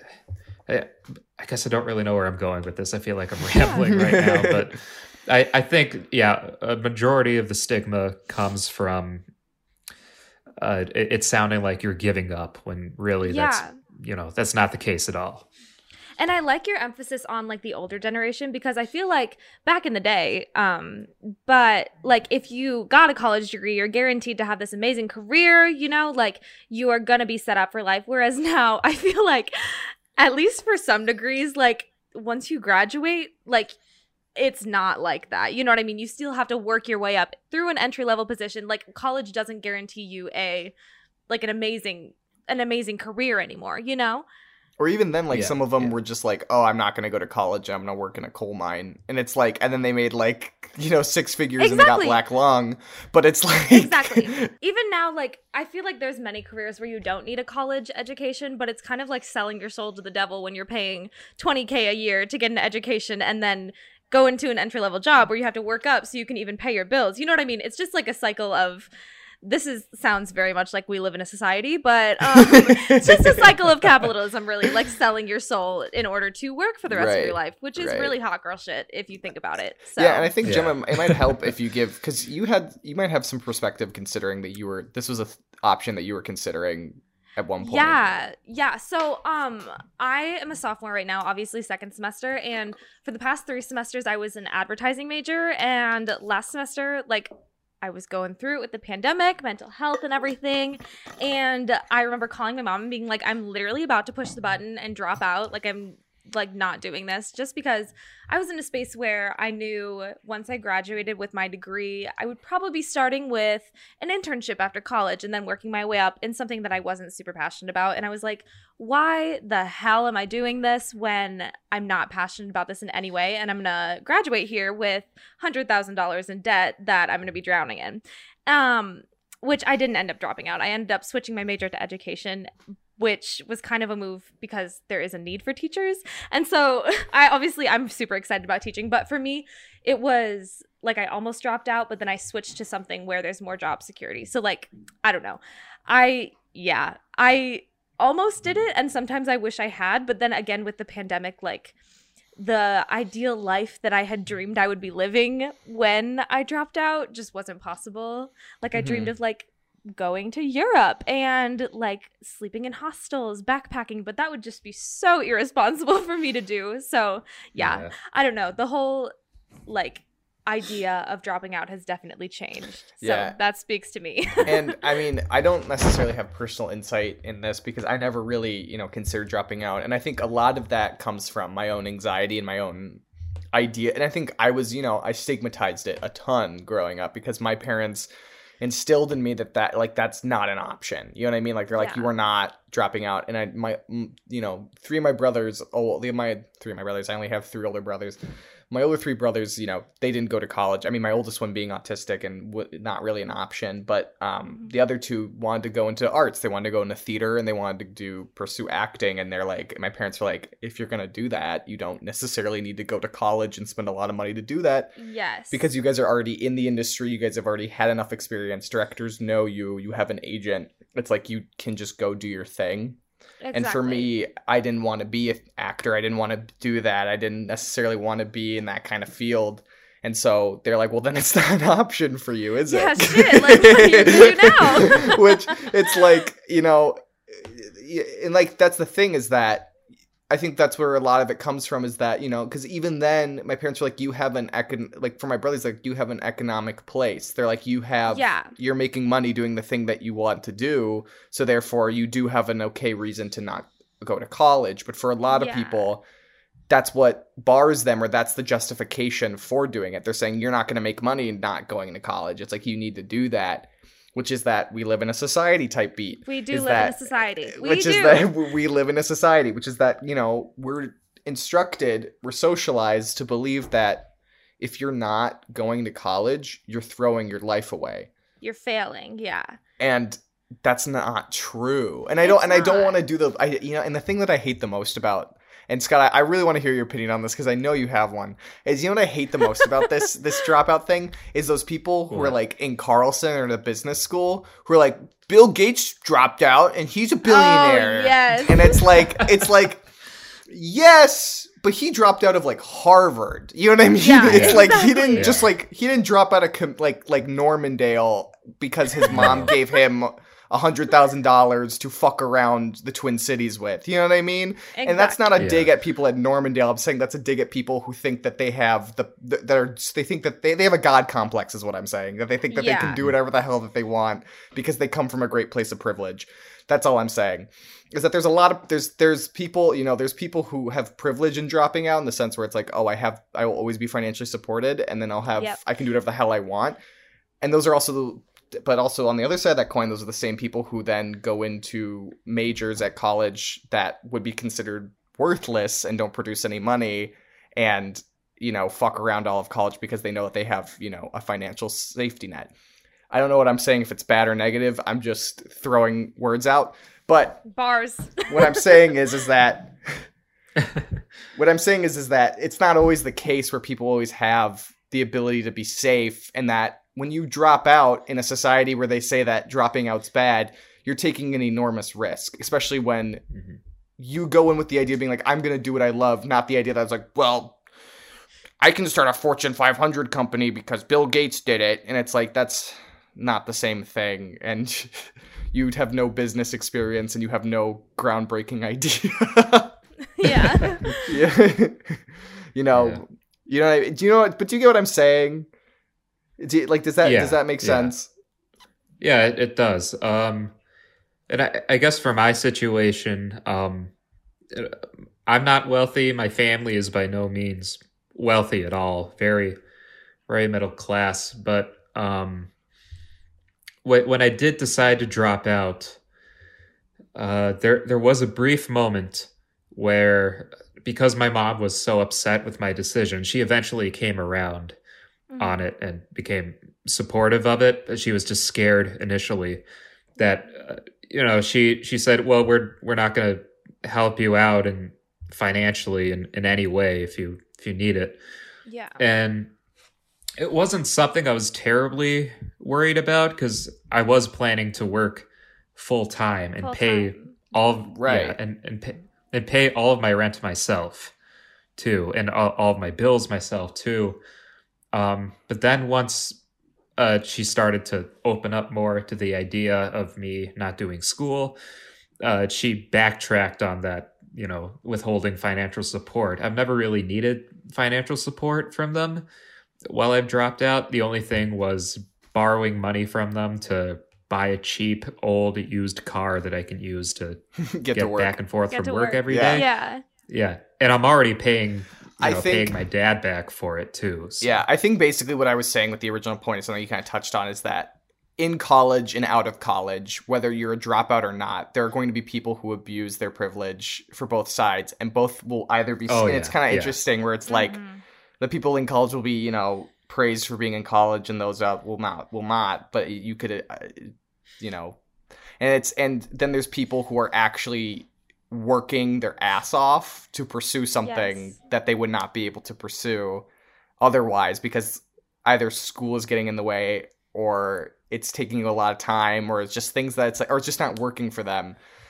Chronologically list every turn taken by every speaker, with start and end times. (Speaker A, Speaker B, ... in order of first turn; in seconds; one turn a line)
Speaker A: 0.7-9.2
Speaker B: 3.6-3.9
Speaker C: 3.9-4.6
Speaker A: 10.6-15.5
Speaker B: 13.2-13.7
Speaker B: 16.2-33.8
Speaker B: 34.4-40.7
Speaker B: 41.3-44.2
Speaker C: 44.8-54.5
Speaker A: 45.3-45.9
Speaker B: 51.6-52.2
Speaker B: 53.7-68.9
Speaker B: 69.4-80.3
Speaker C: 72.2-73.5
Speaker C: 76.9-78.1
Speaker C: 80.0-88.0
Speaker A: 80.4-81.2
Speaker B: 87.6-97.3
Speaker B: 97.8-151.7
Speaker B: 152.4-169.1
Speaker C: 158.8-159.1
Speaker A: 167.6-167.9
Speaker B: 169.7-174.8
Speaker C: 173.0-173.3
Speaker C: 174.4-188.1
Speaker C: 188.6-198.2
Speaker B: 191.8-192.1
Speaker C: 198.7-214.9
Speaker B: 215.0-215.6
Speaker C: 215.5-223.0
Speaker B: 223.4-224.1
Speaker C: 223.5-239.7
Speaker B: 232.7-235.7
Speaker C: 240.3-256.0
Speaker B: 248.1-248.5
Speaker B: 255.3-255.9
Speaker C: 256.7-278.1
Speaker B: 266.2-268.3
Speaker B: 278.4-279.6
Speaker C: 279.8-299.8
Speaker B: 282.2-283.0
Speaker A: 292.1-292.4
Speaker B: 297.2-299.0
Speaker C: 300.5-336.8
Speaker B: 304.0-305.3
Speaker A: 304.2-305.5
Speaker A: 309.1-309.5
Speaker B: 314.7-315.2
Speaker A: 315.4-315.7
Speaker B: 322.5-323.0
Speaker C: 337.4-352.5
Speaker C: 353.1-357.4
Speaker B: 357.5-358.7
Speaker C: 358.3-360.1
Speaker C: 361.3-373.2
Speaker C: 374.0-377.6
Speaker C: 378.6-395.5
Speaker B: 390.1-391.1
Speaker A: 392.7-393.0
Speaker C: 396.4-398.1
Speaker A: 397.0-397.9
Speaker A: 399.0-400.5
Speaker A: 401.3-403.9
Speaker A: 404.5-409.6
Speaker A: 410.3-412.5
Speaker A: 413.8-416.0
Speaker A: 417.1-424.8
Speaker B: 425.3-425.6
Speaker A: 425.4-429.6
Speaker A: 430.2-438.2
Speaker B: 438.6-439.0
Speaker A: 439.0-439.5
Speaker A: 440.4-451.1
Speaker B: 446.6-447.8
Speaker C: 447.9-448.4
Speaker A: 451.8-454.2
Speaker A: 454.9-456.4
Speaker A: 457.0-461.6
Speaker A: 462.2-469.2
Speaker A: 469.9-477.4
Speaker C: 477.6-478.4
Speaker A: 477.9-479.7
Speaker B: 478.7-480.0
Speaker C: 479.2-479.6
Speaker A: 480.3-484.6
Speaker C: 482.2-482.7
Speaker C: 484.4-497.8
Speaker A: 496.1-496.9
Speaker B: 497.5-498.0
Speaker C: 498.4-505.0
Speaker C: 505.6-513.5
Speaker B: 511.0-511.6
Speaker C: 514.0-521.8